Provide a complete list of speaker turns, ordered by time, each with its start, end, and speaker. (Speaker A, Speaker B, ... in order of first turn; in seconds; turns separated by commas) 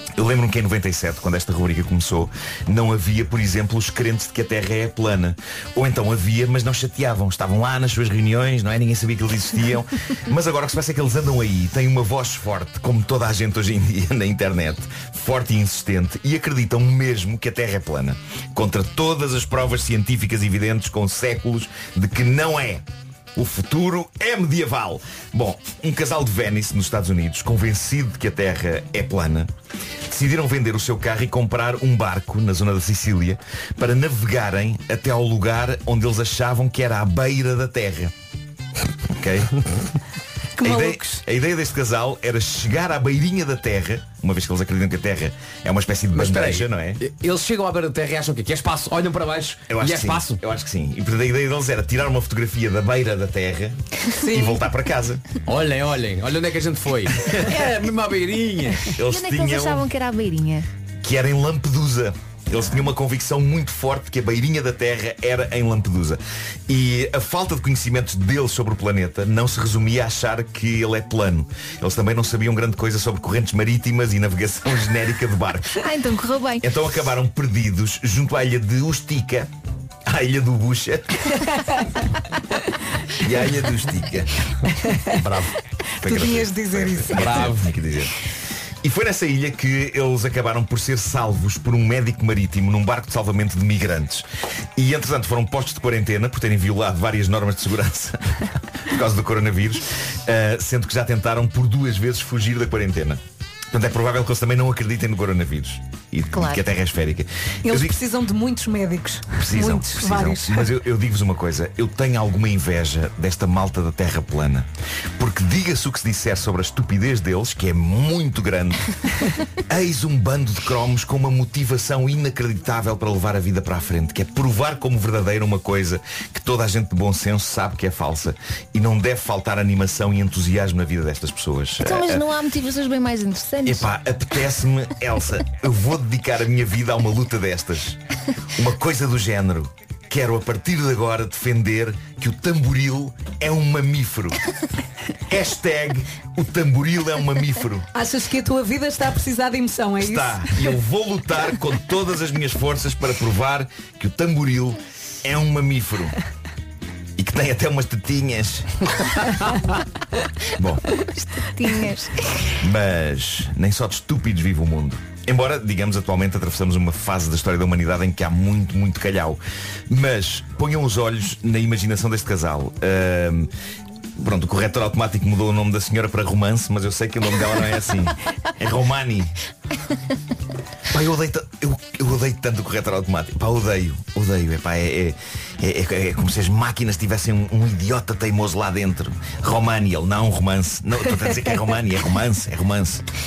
Speaker A: 0.2-22.8, Speaker A: 23.4-29.5, Speaker A: 30.1-38.1, Speaker A: 39.2-39.5, Speaker B: 40.6-41.2, Speaker A: 40.6-47.0, Speaker C: 46.1-50.4, Speaker A: 49.7-55.2, Speaker B: 54.2-54.6, Speaker C: 55.5-58.9, Speaker A: 57.3-57.6, Speaker A: 59.0-59.9, Speaker D: 59.0-60.7, Speaker A: 61.0-75.8, Speaker D: 75.8-76.7, Speaker A: 76.6-79.5, Speaker A: 80.1-81.4, Speaker A: 83.2-84.3, Speaker B: 84.8-85.2, Speaker A: 85.1-88.1, Speaker B: 86.0-87.3, Speaker C: 87.1-87.8, Speaker A: 88.8-94.2, Speaker A: 94.8-103.2, Speaker A: 103.7-108.0, Speaker D: 106.3-106.6, Speaker B: 107.7-110.7, Speaker A: 109.3-118.9, Speaker A: 119.7-132.3, Speaker D: 131.8-133.9, Speaker A: 133.7-138.0, Speaker A: 138.6-144.4, Speaker A: 145.3-147.9, Speaker B: 147.9-150.8, Speaker A: 150.0-156.2, Speaker A: 157.2-158.7, Speaker A: 160.6-160.9, Speaker D: 161.2-162.5, Speaker A: 162.6-173.5, Speaker A: 174.2-179.3, Speaker A: 180.9-193.0